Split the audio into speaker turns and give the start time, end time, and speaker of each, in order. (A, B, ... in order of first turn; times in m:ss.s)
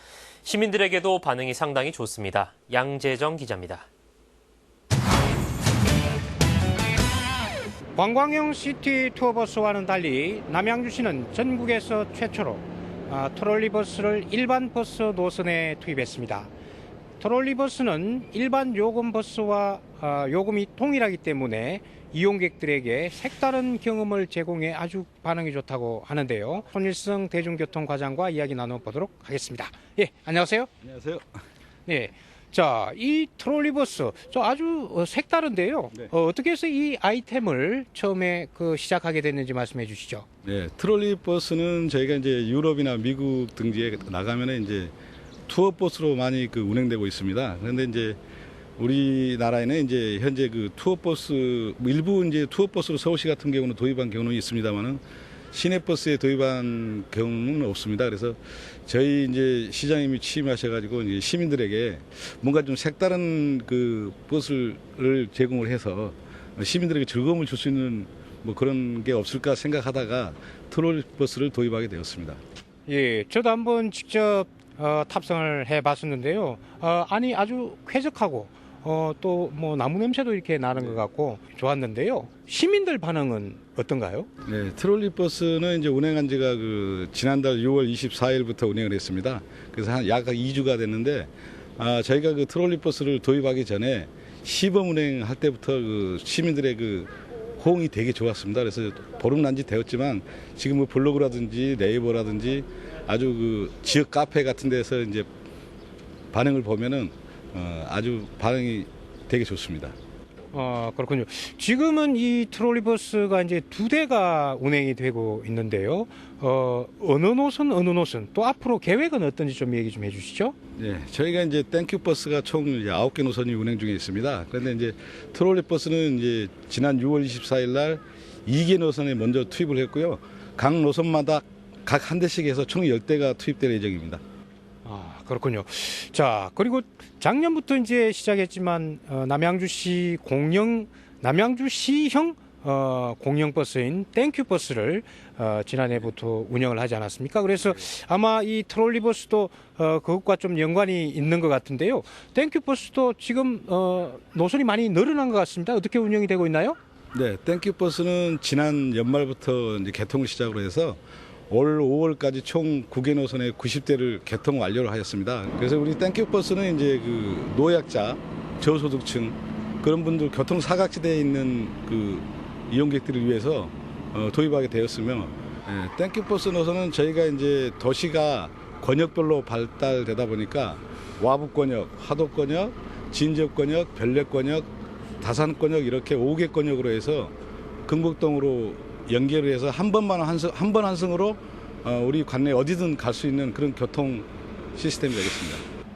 0:00.4-0:03.9 A
0:08.0-0:16.5 B
0:17.2-0:30.7 B
0:30.8-0:31.3 C
0:31.9-0:40.3 B
0:40.4-0:44.9 C
0:45.5-0:48.2 C
0:48.8-1:12.4 C
1:12.9-1:24.3 B
1:24.5-1:45.3 C
1:46.3-1:50.0 C
1:50.5-2:00.6 B
2:00.8-2:14.2 C
2:14.8-2:36.8 B
2:37.1-3:04.7 C
3:05.2-3:07.3 C
3:07.9-3:15.6 C